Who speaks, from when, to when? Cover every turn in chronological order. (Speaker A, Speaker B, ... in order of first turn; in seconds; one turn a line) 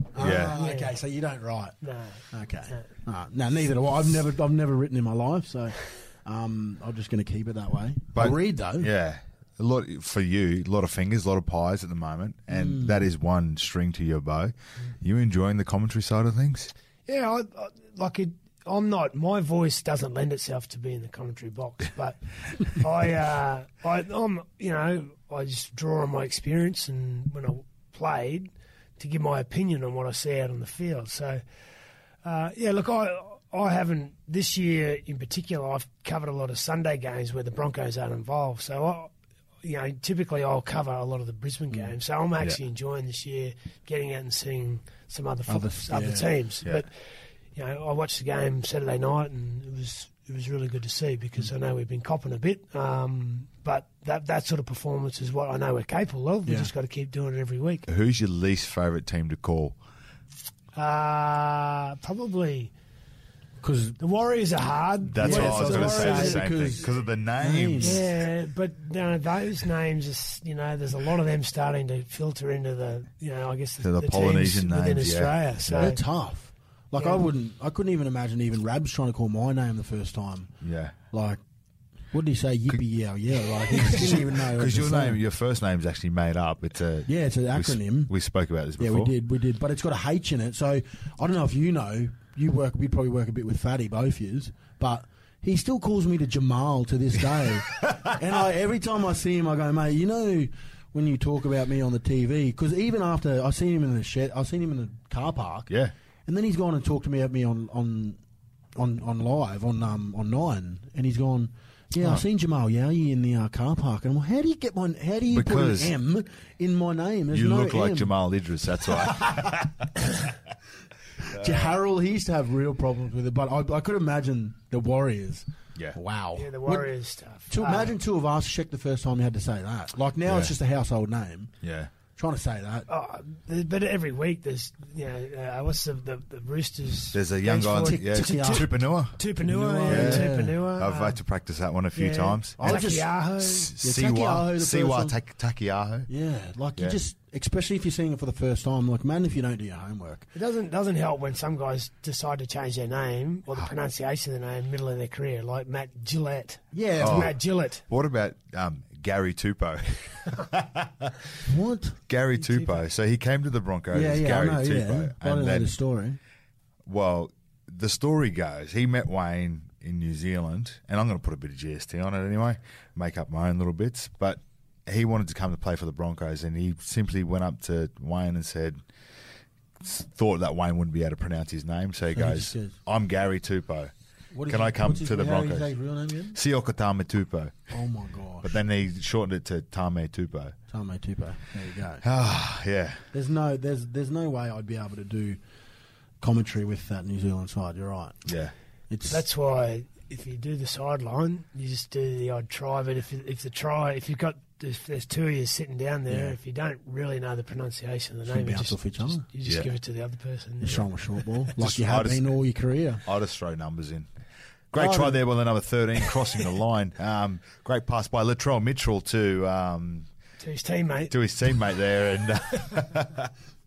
Speaker A: 0.1-1.8
Speaker B: 0.2-0.6
Speaker C: 0.4-0.9
Speaker C: 1.8-2.9
Speaker A: 2.3-8.9
Speaker B: 8.1-16.7
Speaker A: 12.5-13.0
Speaker C: 17.1-31.4
Speaker C: 32.2-39.1
Speaker C: 39.6-46.9
Speaker A: 45.5-46.4
Speaker C: 47.5-57.9
Speaker A: 56.5-56.7
Speaker B: 57.9-59.8
Speaker C: 60.7-62.7
Speaker A: 63.6-64.0
Speaker C: 64.0-66.4
Speaker B: 65.1-68.1
Speaker A: 65.2-68.0
Speaker C: 67.8-76.0
Speaker B: 73.8-75.9
Speaker A: 75.7-80.5
Speaker C: 77.0-77.2
Speaker B: 80.6-81.0
Speaker A: 81.1-81.4
Speaker A: 82.1-85.2
Speaker B: 83.8-89.1
Speaker A: 87.0-88.1
Speaker A: 88.8-105.7
Speaker A: 106.2-108.2
Speaker A: 108.8-118.1
Speaker B: 112.0-112.2
Speaker B: 115.3-115.9
Speaker B: 117.3-120.1
Speaker A: 118.9-119.5
Speaker A: 121.2-126.9
Speaker B: 121.2-121.7
Speaker C: 126.3-127.9
Speaker A: 127.5-131.5
Speaker B: 130.2-130.5
Speaker B: 131.6-131.9
Speaker A: 132.2-132.9
Speaker C: 132.9-141.2
Speaker B: 137.1-139.2
Speaker A: 137.8-138.7
Speaker A: 139.4-140.6
Speaker B: 139.9-146.1
Speaker C: 141.9-143.7
Speaker A: 142.6-143.1
Speaker A: 143.8-145.2
Speaker A: 146.1-150.3
Speaker C: 150.3-157.8
Speaker A: 156.7-157.3
Speaker B: 157.0-161.3
Speaker A: 161.4-162.0
Speaker B: 162.1-165.7
Speaker C: 162.4-162.8
Speaker A: 163.9-166.2
Speaker B: 166.8-178.8
Speaker B: 179.8-183.9
Speaker A: 182.1-182.8
Speaker A: 184.3-186.4
Speaker B: 184.5-185.7
Speaker B: 186.3-187.7
Speaker A: 187.7-188.6
Speaker B: 188.4-190.6
Speaker A: 190.7-192.0
Speaker B: 192.0-193.1
Speaker A: 193.1-195.4
Speaker A: 196.2-198.2
Speaker B: 198.2-198.5
Speaker A: 198.9-199.2
Speaker C: 199.1-210.9
Speaker A: 206.1-206.4
Speaker A: 208.3-209.3
Speaker A: 210.6-213.0
Speaker B: 211.6-212.2
Speaker B: 213.1-214.1
Speaker B: 214.7-220.1
Speaker A: 214.7-215.2
Speaker C: 220.4-221.1
Speaker B: 221.1-223.3